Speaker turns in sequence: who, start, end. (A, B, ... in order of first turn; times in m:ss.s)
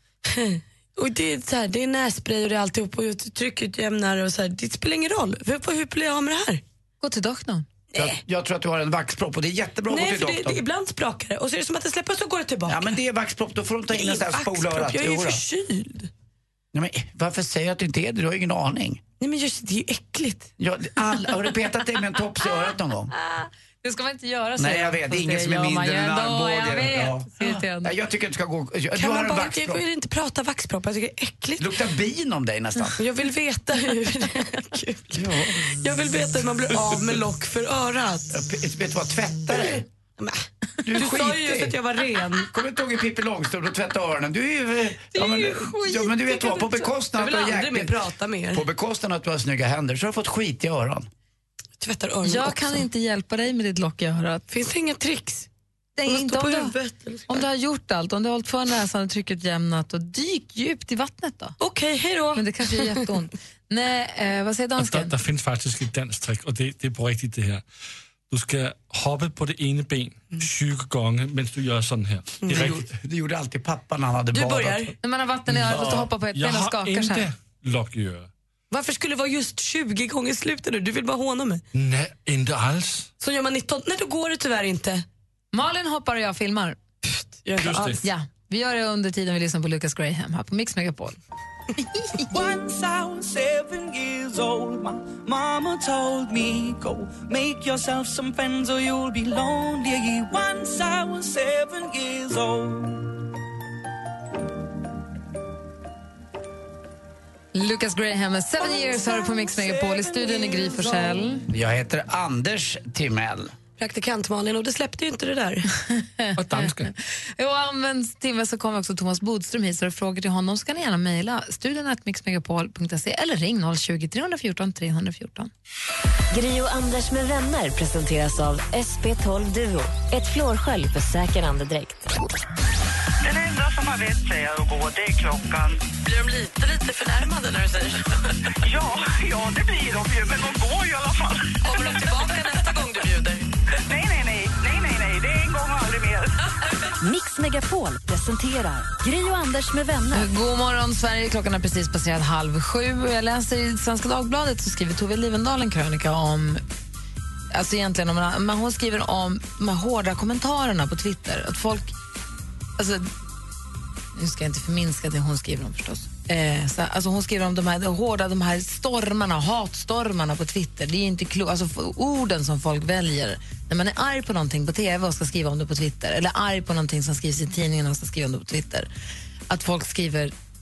0:00.2-0:06.6 A
0:07.0-0:07.7 B
0:07.9-0:10.6 C
0:09.9-0:12.9 A
0:12.7-0:15.4 C
0:13.9-0:16.1 A
0:16.7-0:19.0 C
0:19.2-0:20.5 A
0:20.6-0:23.1 C
0:23.1-0:27.9 B
0:24.6-0:29.8 C
0:28.9-0:31.7 A
0:31.6-0:33.0 C
0:33.0-0:38.3 A
0:35.1-0:35.8 C
0:38.3-0:39.8 C
0:39.5-0:42.5 A
0:40.8-0:41.8 C
0:42.5-0:48.0 C
0:45.1-0:46.9 B
0:47.2-0:48.6 A
0:48.5-0:51.1 C
0:51.8-0:52.8 A
0:52.2-0:54.4 B
0:54.5-0:55.5 A
0:56.0-0:56.8 B
0:56.0-0:57.4 A
0:57.3-1:01.6 B
1:01.6-1:02.9 A
1:02.3-1:05.1 B
1:04.8-1:07.6 D
1:08.3-1:12.8 D
1:12.4-1:12.7 A
1:12.5-1:14.9 C
1:14.3-1:14.9 A
1:15.0-1:17.3 B
1:15.5-1:18.3 D
1:15.7-1:16.1 C
1:18.7-1:21.6 A
1:21.7-1:23.1 D
1:23.2-1:25.0 A
1:25.5-1:26.8 B
1:27.0-1:28.0 A
1:27.6-1:28.0 D
1:28.0-1:31.2 B
1:32.3-1:43.0 E
1:47.5-1:51.4 B
1:48.6-1:51.2 E
1:51.5-1:53.5 C
1:53.8-1:55.7 A
1:55.9-2:05.5 B
1:56.4-1:56.9 D
2:06.3-2:12.1 F
2:13.3-2:15.8 G
2:16.0-2:18.0 A
2:18.7-2:21.4 G
2:21.6-2:23.4 A
2:23.9-2:26.2 G
2:27.0-2:30.3 F
2:30.1-2:36.6 B
2:37.5-2:41.9 B
2:42.8-2:43.1 B
2:44.1-2:58.9 B
2:59.5-3:00.3 B